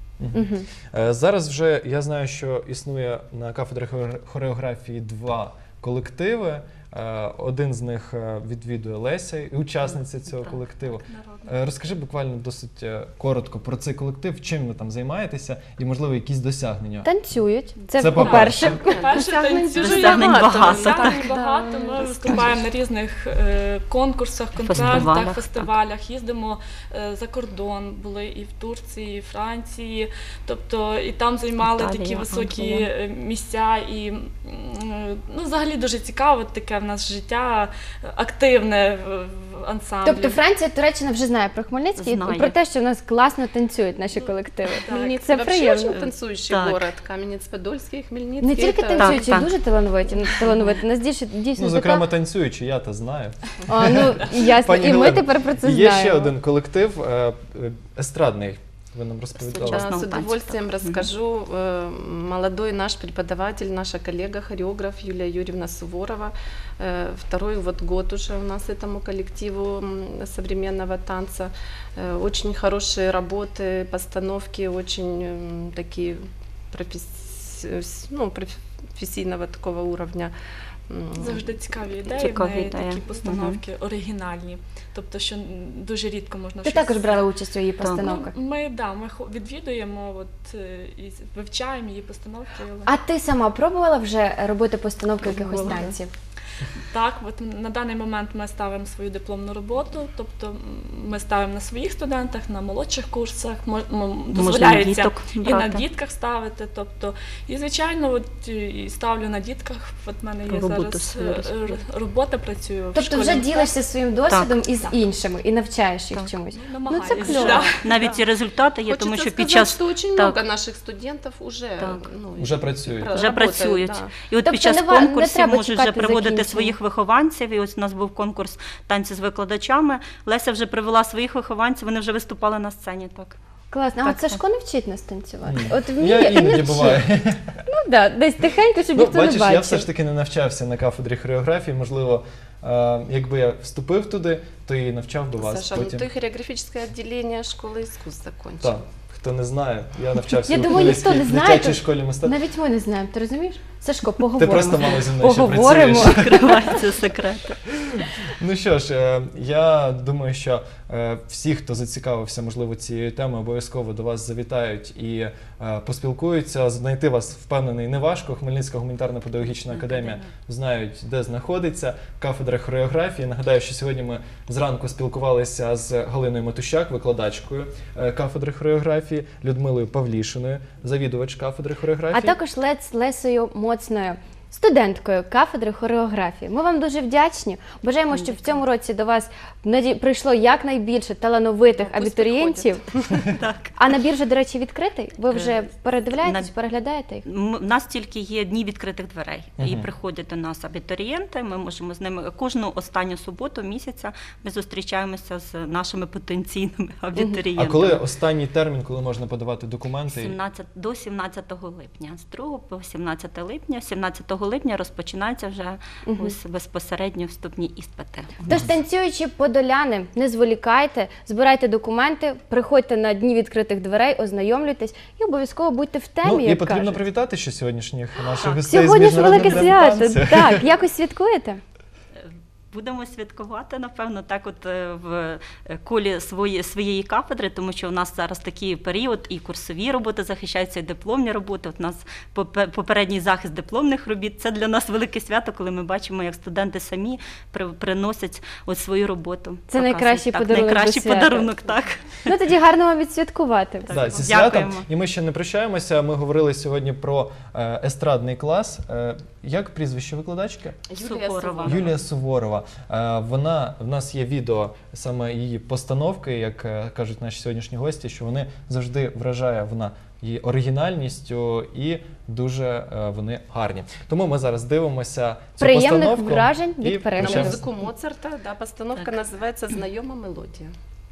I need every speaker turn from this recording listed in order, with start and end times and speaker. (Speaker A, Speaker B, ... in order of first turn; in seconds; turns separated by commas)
Speaker A: 0.2-17.1, Speaker B: 0.3-0.7, Speaker C: 11.1-11.5, Speaker B: 17.0-20.4, Speaker A: 18.0-18.8, Speaker C: 18.1-40.4, Speaker D: 18.8-22.5, Speaker E: 19.8-21.3, Speaker B: 21.1-22.3, Speaker E: 24.5-25.7, Speaker A: 24.7-25.1, Speaker E: 31.6-32.9, Speaker B: 40.0-46.1, Speaker E: 42.0-42.5, Speaker C: 44.1-45.1, Speaker D: 44.9-49.4, Speaker E: 46.5-46.8, Speaker B: 48.4-52.1, Speaker E: 49.0-49.5, Speaker A: 51.6-59.9, Speaker B: 53.7-56.3, Speaker E: 59.5-61.1, Speaker D: 59.6-80.3, Speaker D: 80.9-81.8, Speaker C: 81.2-87.2, Speaker E: 82.1-83.6, Speaker B: 86.7-88.3, Speaker C: 87.9-92.9, Speaker B: 92.9-96.1, Speaker E: 95.2-96.0, Speaker C: 96.9-113.8, Speaker E: 104.3-105.8, Speaker E: 110.5-111.8, Speaker B: 113.0-117.7, Speaker E: 114.3-114.6, Speaker C: 116.5-118.2, Speaker E: 117.1-120.4, Speaker D: 118.9-124.1, Speaker E: 121.8-122.1, Speaker A: 122.4-123.1, Speaker E: 123.1-133.4, Speaker B: 124.4-126.8, Speaker B: 133.7-137.1, Speaker E: 134.0-134.4, Speaker A: 135.4-137.5, Speaker B: 137.7-139.9, Speaker A: 138.9-146.1, Speaker D: 145.4-148.8, Speaker A: 148.6-152.4, Speaker B: 150.4-156.6, Speaker A: 154.4-156.5, Speaker E: 156.0-157.6, Speaker A: 157.6-182.4, Speaker E: 169.7-170.3, Speaker B: 182.1-192.8, Speaker E: 188.1-188.6, Speaker D: 191.7-193.3, Speaker E: 193.3-193.8, Speaker B: 193.8-197.2, Speaker E: 195.3-196.5, Speaker E: 197.2-208.1, Speaker A: 199.6-199.9, Speaker B: 207.2-207.4, Speaker A: 207.6-210.3, Speaker E: 210.1-218.4, Speaker B: 216.1-216.3, Speaker B: 218.5-227.0, Speaker A: 226.2-230.7, Speaker E: 228.3-228.6, Speaker B: 228.6-231.6, Speaker E: 229.3-229.7, Speaker E: 232.2-252.3, Speaker B: 249.7-251.6, Speaker B: 252.2-254.0, Speaker E: 253.9-254.9, Speaker A: 253.9-260.9, Speaker D: 260.9-262.0, Speaker E: 261.0-261.9, Speaker A: 261.6-277.6, Speaker B: 275.6-277.6, Speaker D: 277.2-280.7